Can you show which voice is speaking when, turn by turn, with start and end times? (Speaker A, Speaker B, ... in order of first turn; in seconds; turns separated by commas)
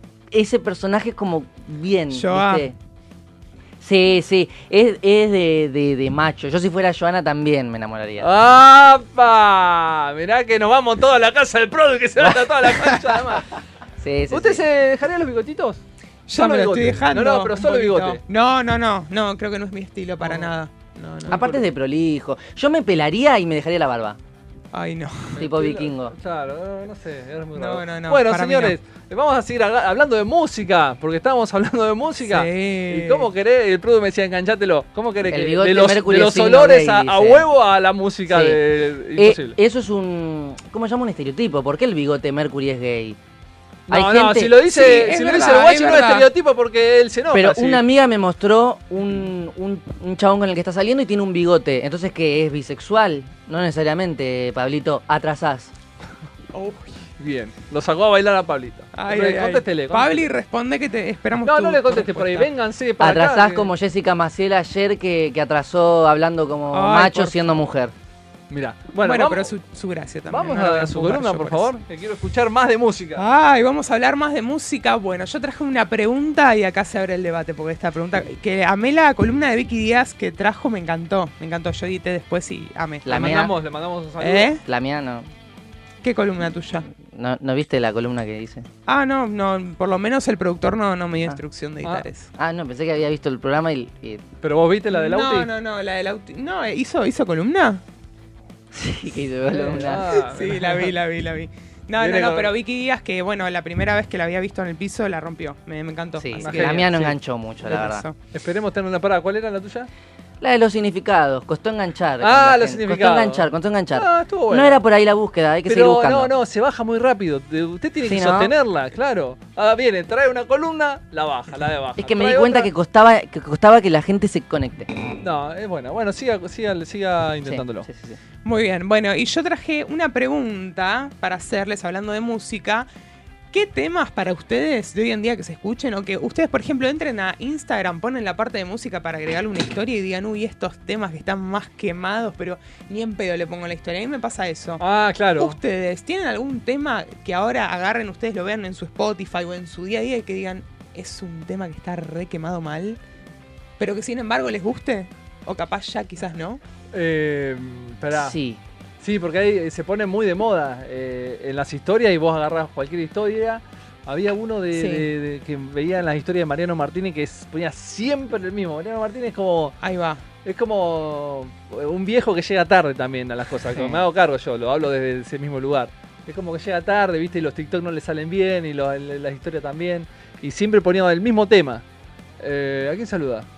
Speaker A: 0.3-2.8, Speaker B: 2.1-2.7, Speaker A: 3.8-8.3, Speaker C: 8.2-13.4, Speaker A: 12.2-12.9, Speaker A: 14.0-14.6, Speaker C: 14.3-15.8, Speaker B: 16.3-21.6, Speaker C: 16.3-18.2, Speaker C: 20.2-20.5, Speaker C: 21.3-21.6, Speaker A: 21.3-24.2, Speaker B: 24.7-25.4, Speaker C: 25.4-39.6, Speaker A: 25.4-26.1, Speaker B: 27.5-28.8, Speaker B: 32.2-33.3, Speaker A: 35.3-37.4, Speaker A: 38.3-38.6, Speaker A: 39.2-43.2, Speaker A: 43.9-44.5, Speaker C: 43.9-47.8, Speaker B: 44.7-46.3, Speaker A: 47.3-55.7, Speaker B: 56.5-57.0, Speaker C: 57.2-60.3, Speaker B: 59.0-62.5, Speaker C: 61.4-63.7, Speaker A: 63.0-67.9, Speaker B: 66.7-67.5, Speaker C: 68.5-69.5, Speaker B: 69.0-71.7, Speaker C: 70.3-73.2, Speaker B: 73.2-83.1, Speaker A: 83.0-83.5, Speaker C: 83.1-84.5, Speaker B: 84.2-84.6, Speaker A: 84.6-85.3, Speaker B: 86.0-86.8, Speaker A: 86.9-88.7, Speaker B: 88.9-92.3, Speaker A: 92.3-94.2, Speaker C: 94.4-95.5, Speaker B: 94.9-97.8, Speaker A: 98.7-100.0, Speaker C: 99.5-100.9, Speaker B: 99.7-106.9, Speaker C: 102.0-102.5, Speaker A: 106.2-108.0, Speaker C: 106.4-107.1, Speaker B: 107.6-108.1, Speaker C: 108.3-109.9, Speaker A: 110.4-116.3, Speaker C: 112.2-114.8, Speaker C: 115.7-122.7, Speaker A: 118.0-118.5, Speaker A: 122.0-124.9, Speaker C: 125.2-127.9, Speaker A: 127.4-128.2, Speaker B: 128.4-132.9, Speaker B: 133.5-144.8, Speaker C: 144.8-145.6, Speaker B: 145.4-153.0, Speaker B: 153.8-156.6, Speaker C: 156.9-158.3, Speaker A: 158.1-158.6, Speaker C: 159.0-169.8, Speaker B: 164.7-165.1, Speaker B: 169.8-170.2, Speaker C: 170.4-181.8, Speaker C: 182.4-183.4